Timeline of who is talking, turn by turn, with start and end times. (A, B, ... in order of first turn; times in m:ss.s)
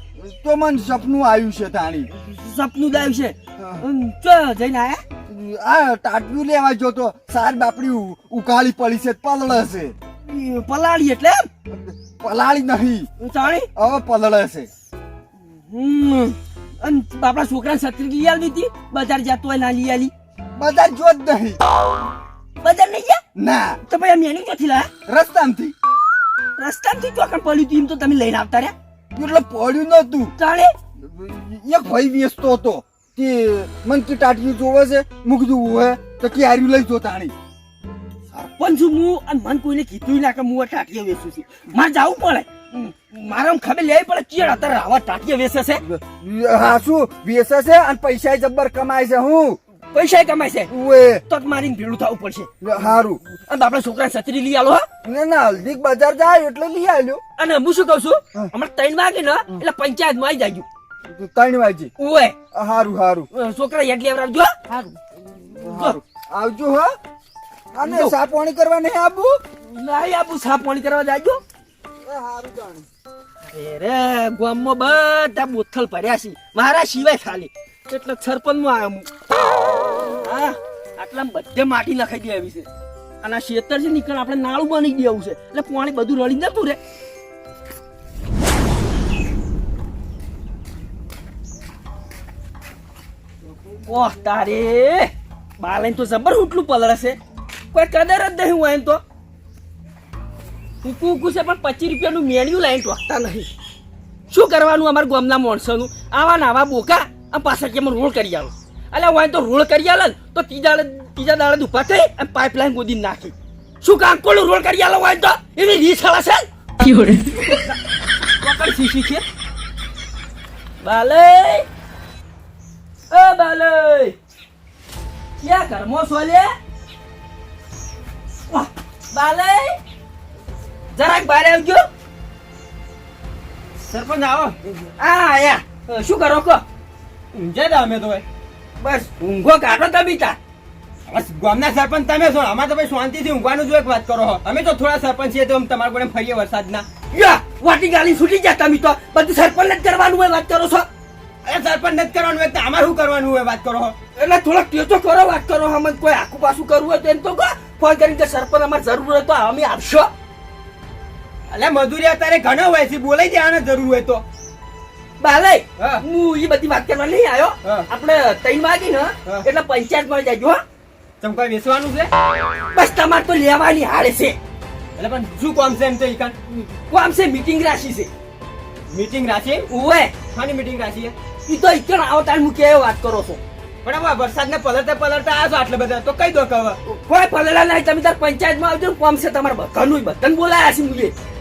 0:00.2-0:02.1 A
0:02.2-0:05.0 B
0:03.6-0:03.8 A
0:05.3-0:10.0 A
0:10.2-0:11.5 B
0:11.7-0:13.1 A
0:13.2-0:13.7 B
0:13.8-0:14.7 A
0:15.6-0:20.1 B
0:20.6-0:21.6 A
0:22.6-0:23.2 B
0:23.4-0:23.8 A
0:23.8-0:24.9 B
0:25.1-0:25.7 A
0:26.6-0:28.7 B
0:29.2-0:30.3 A
0:30.4-0:30.7 B
0:31.0-0:37.3 A
0:38.3-0:45.8 B
0:45.8-0:49.6 A
0:49.9-0:50.7 B
0:50.7-0:51.2 A
0:51.3-0:52.5 B
0:52.6-0:53.2 A
0:53.3-0:54.8 B
0:55.0-0:57.2 A
0:57.4-1:00.7 B
1:01.1-1:01.9 A
1:02.0-1:02.4 B
1:02.5-1:03.3 A
1:03.3-1:04.9 B
1:05.5-1:06.9 A
1:05.6-1:06.0 B
1:07.8-1:09.4 A
1:07.8-1:08.2 B
1:09.7-1:11.4 B
1:12.0-1:12.9 A
1:13.5-1:19.1 B
1:20.2-1:22.7 B
1:23.2-1:26.8 B
1:33.9-1:37.2 B
1:37.7-1:39.0 B
1:40.8-1:43.5 B
1:44.3-1:57.7 B
1:58.4-1:59.2 B
2:00.8-2:01.7 B
2:03.1-2:04.2 B
2:05.4-2:06.5 B
2:08.5-2:09.8 B
2:10.9-2:11.8 B
2:13.9-2:14.5 C
2:14.6-2:16.6 B
2:17.3-2:18.2 C
2:18.8-2:20.4 B
2:21.1-2:26.8 C
2:27.1-2:30.9 B
2:31.4-2:34.0 C
2:34.2-2:40.1 B
2:41.5-2:44.2 C
2:45.2-2:50.6 B
2:51.2-2:52.1 C
2:52.7-2:54.4 B
2:55.0-2:56.4 C
2:56.5-2:58.1 B
2:58.9-2:59.6 C
2:59.7-3:00.2 B
3:00.3-3:01.1 C
3:01.5-3:03.4 B
3:03.8-3:06.8 C
3:06.9-3:11.2 B